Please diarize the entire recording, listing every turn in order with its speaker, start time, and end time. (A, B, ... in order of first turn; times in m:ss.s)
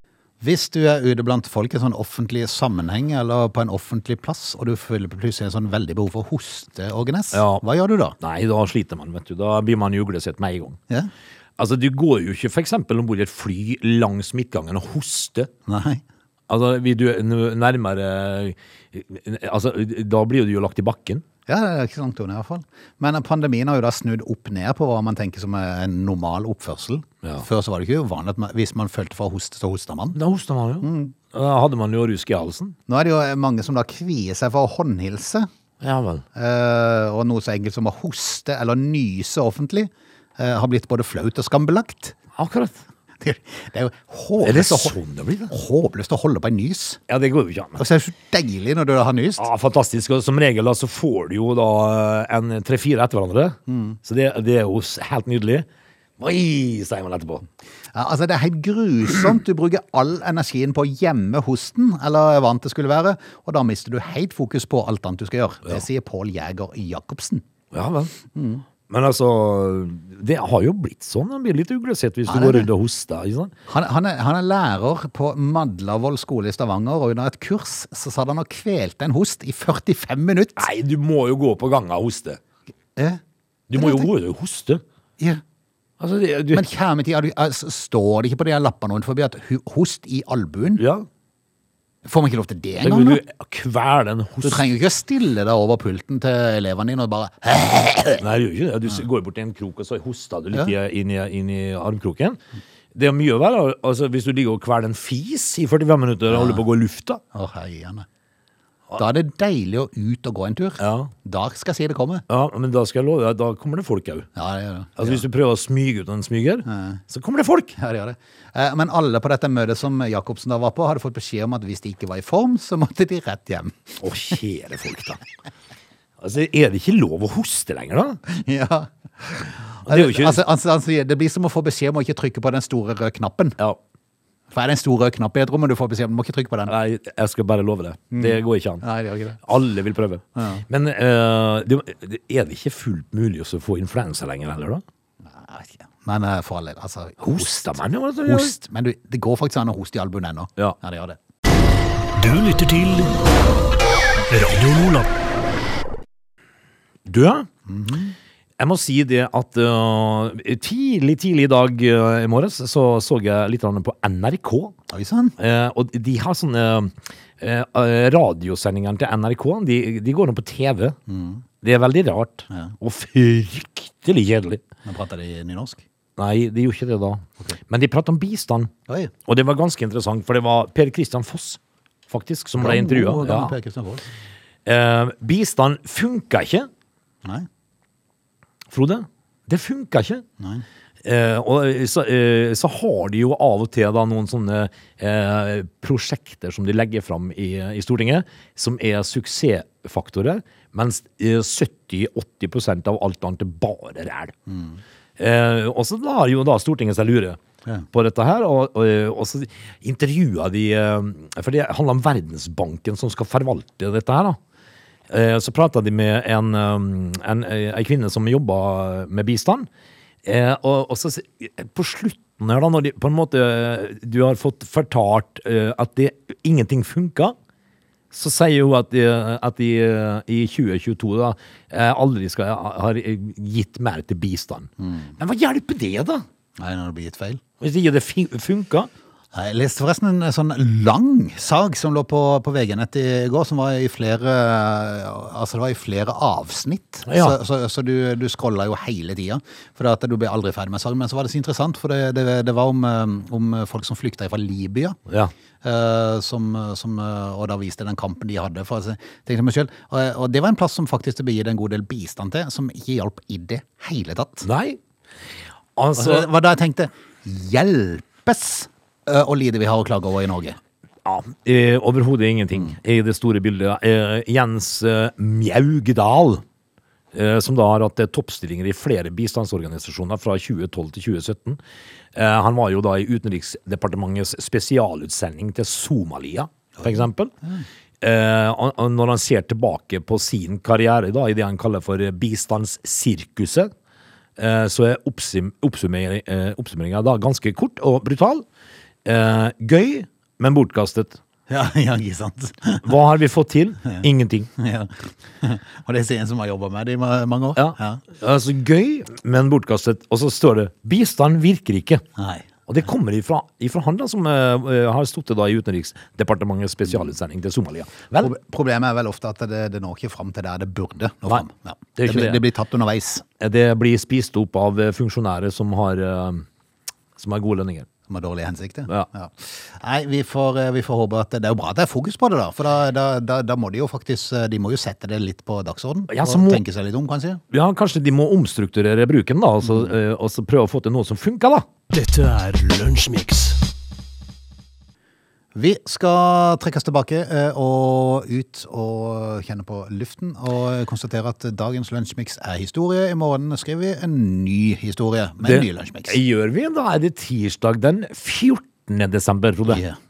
0:00.4-0:08.2 A
0:07.3-0:07.6 B
0:08.2-0:10.8 B
0:11.6-0:15.5 B
0:15.7-0:16.0 A
0:16.5-0:21.2 B
0:21.5-0:30.2 A
0:30.1-0:32.8 B
0:30.8-0:31.2 A
0:32.9-0:35.5 A
0:35.8-0:36.2 B
0:36.4-0:42.2 A
0:42.4-0:42.8 B
0:43.2-0:45.0 A
0:44.4-0:45.5 B
0:45.5-0:47.0 A
0:47.1-0:47.8 B
0:47.8-0:49.4 A
0:49.4-0:55.7 B
0:53.7-0:54.0 A
0:56.2-0:57.4 B
0:57.9-1:07.4 A
1:07.7-1:08.1 B
1:08.3-1:08.6 A
1:08.9-1:13.5 B
1:12.3-1:12.7 A
1:13.7-1:20.7 A
1:20.6-1:22.4 B
1:23.0-1:23.2 A
1:23.7-1:24.8 B
1:23.8-1:24.1 A
1:26.0-1:26.7 B
1:26.5-1:30.8 A
1:30.8-1:31.1 B
1:32.0-1:33.2 A
1:32.8-1:34.6 B
1:34.4-1:38.3 A
1:38.2-1:42.4 B
1:42.9-1:47.2 B
1:46.3-1:46.6 A
1:47.3-1:48.1 A
1:49.0-1:52.2 A
1:50.8-1:51.1 B
1:52.3-1:54.3 B
1:54.4-1:55.2 A
1:55.0-1:57.8 B
1:56.7-1:57.0 A
1:57.8-2:04.4 A
2:04.0-2:05.2 B
2:06.2-2:08.2 B
2:08.3-2:13.6 A
2:09.9-2:10.4 B
2:14.5-2:16.7 A
2:16.7-2:18.8 B
2:18.1-2:19.4 A
2:19.4-2:24.8 B
2:20.4-2:20.6 A
2:25.2-2:31.2 A
2:27.2-2:28.6 B
2:32.2-2:33.1 C
2:34.3-2:35.1 C
2:37.0-2:37.5 B
2:37.7-2:38.2 A
2:38.6-2:44.8 B
2:44.9-2:45.4 A
2:45.4-2:51.0 B
2:51.1-2:51.4 A
2:51.6-2:54.6 B
2:54.8-2:55.8 A
2:56.2-2:58.7 B
2:59.3-3:03.6 B
3:02.6-3:04.0 A
3:04.7-3:06.7 B
3:08.7-3:10.2 B
3:10.4-3:10.6 A
3:11.0-3:24.4 B
3:24.5-3:24.8 A
3:25.2-3:27.4 B
3:27.9-3:34.4 B
3:35.1-3:39.7 B
3:40.2-3:47.4 B
3:48.1-3:56.2 B
3:54.8-3:55.1 A
3:56.6-3:57.4 A
3:57.6-3:58.9 B
3:59.3-4:15.0 A
4:07.1-4:07.4 B
4:15.1-4:15.3 B
4:15.6-4:24.5 A
4:24.4-4:24.8 B
4:25.8-4:26.3 B
4:26.0-4:30.6 A
4:31.0-4:36.4 B
4:37.1-4:41.6 B
4:42.2-4:47.3 B
4:46.8-4:47.6 A
4:48.0-4:53.7 B
4:54.4-4:58.4 B
4:59.0-5:01.2 B
5:01.5-5:02.9 A
5:02.8-5:04.5 B
5:04.6-5:08.0 A
5:07.6-5:12.0 B
5:12.2-5:12.5 A
5:12.7-5:18.3 B
5:18.2-5:23.2 A
5:22.0-5:22.4 B
5:23.4-5:26.5 B
5:27.2-5:27.9 B
5:28.1-5:37.4 A
5:36.1-5:36.6 B
5:37.5-5:41.7 B
5:41.9-5:43.6 C
5:45.6-5:56.2 A
5:55.4-5:59.8 B
5:59.7-6:00.0 A